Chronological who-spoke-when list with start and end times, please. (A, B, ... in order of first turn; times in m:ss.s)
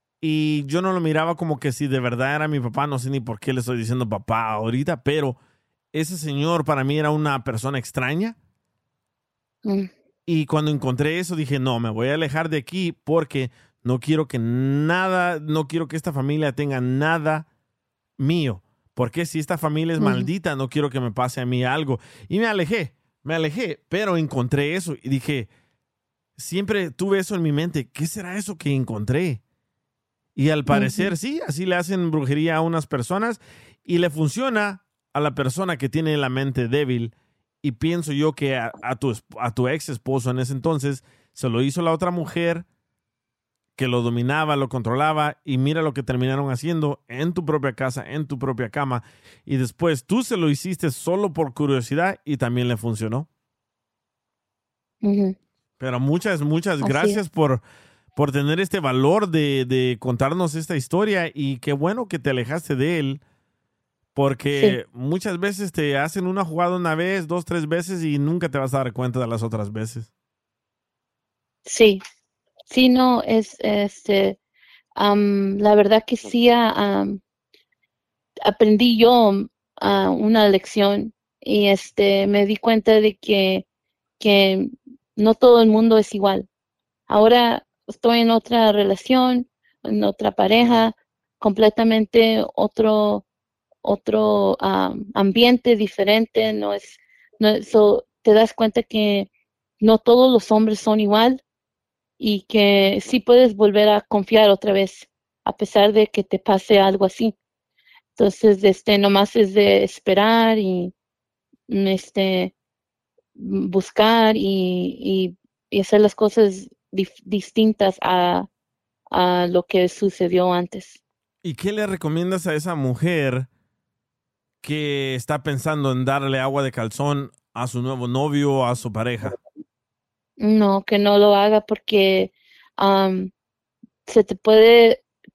0:00.2-0:05.4 A
0:05.9-0:08.4 A
0:09.6-0:09.9 B
0:10.3-0:17.5 A
0:18.2-0:25.5 A
0:20.0-0:20.3 B
0:26.4-0:29.4 A
0:30.4-0:42.6 A
0:30.7-0:31.1 B
0:43.8-0:53.3 A
0:55.0-0:55.4 B
0:55.8-0:57.6 A
0:56.8-0:57.2 B
0:58.2-1:03.2 A
1:04.2-1:10.1 A
1:11.7-1:12.0 B
1:12.7-1:14.4 B
1:15.0-1:17.2 B
1:18.4-1:23.6 B
1:24.2-1:26.5 B
1:27.1-1:33.2 B
1:33.8-1:39.3 B
1:39.8-1:41.4 B
1:42.2-1:47.3 B
1:48.2-1:50.9 B
1:51.7-1:52.5 B
1:53.4-1:58.5 B
1:59.1-2:01.0 B
2:01.4-2:03.5 A
2:04.6-2:09.4 A
2:10.4-2:13.3 B
2:14.1-2:15.0 B